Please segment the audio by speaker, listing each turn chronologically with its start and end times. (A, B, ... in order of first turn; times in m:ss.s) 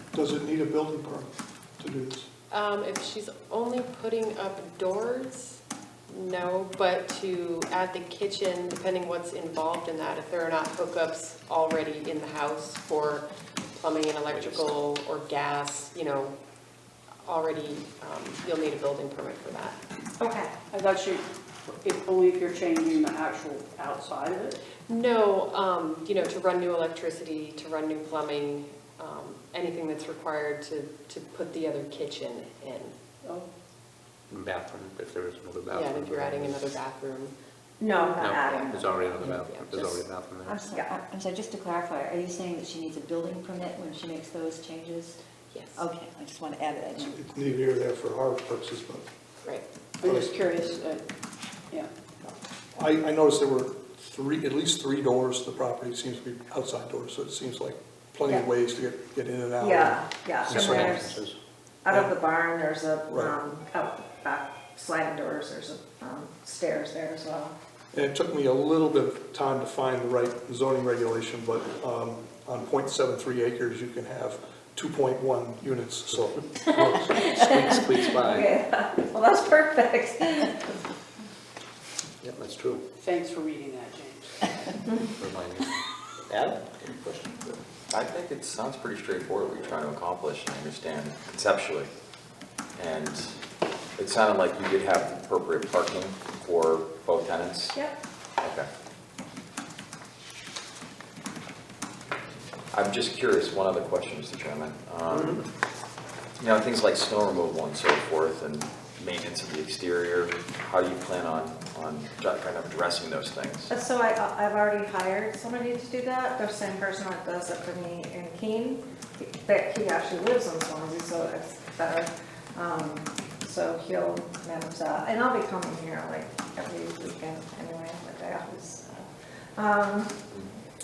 0:00.1-0:02.3 A
0:02.5-0:16.4 B
0:14.3-0:14.7 C
0:17.2-0:19.8 B
0:20.2-0:20.5 D
0:20.7-0:24.6 E
0:24.9-0:32.9 B
0:34.3-0:36.6 C
0:35.7-0:37.3 B
0:37.8-0:39.0 D
0:38.0-0:40.0 B
0:38.2-0:40.6 C
0:40.4-0:45.2 F
0:40.7-0:41.0 D
0:45.5-0:45.8 B
0:45.8-0:47.2 F
0:47.0-0:49.0 A
0:50.0-0:51.0 E
0:50.0-0:50.3 A
0:52.2-1:01.0 A
0:59.6-1:01.2 D
1:00.5-1:01.4 C
1:01.8-1:07.6 D
1:01.9-1:02.1 A
1:03.1-1:03.4 A
1:07.9-1:17.3 A
1:16.7-1:20.7 D
1:17.1-1:18.5 C
1:22.2-1:22.8 C
1:23.0-1:24.8 E
1:25.2-1:25.7 C
1:26.3-1:27.6 C
1:27.9-1:31.9 G
1:32.8-1:33.3 G
1:34.0-1:37.8 G
1:37.7-1:38.0 D
1:38.4-1:38.7 G
1:42.7-1:45.4 G
1:45.1-1:45.4 C
1:46.4-1:53.7 G
1:53.7-2:10.2 D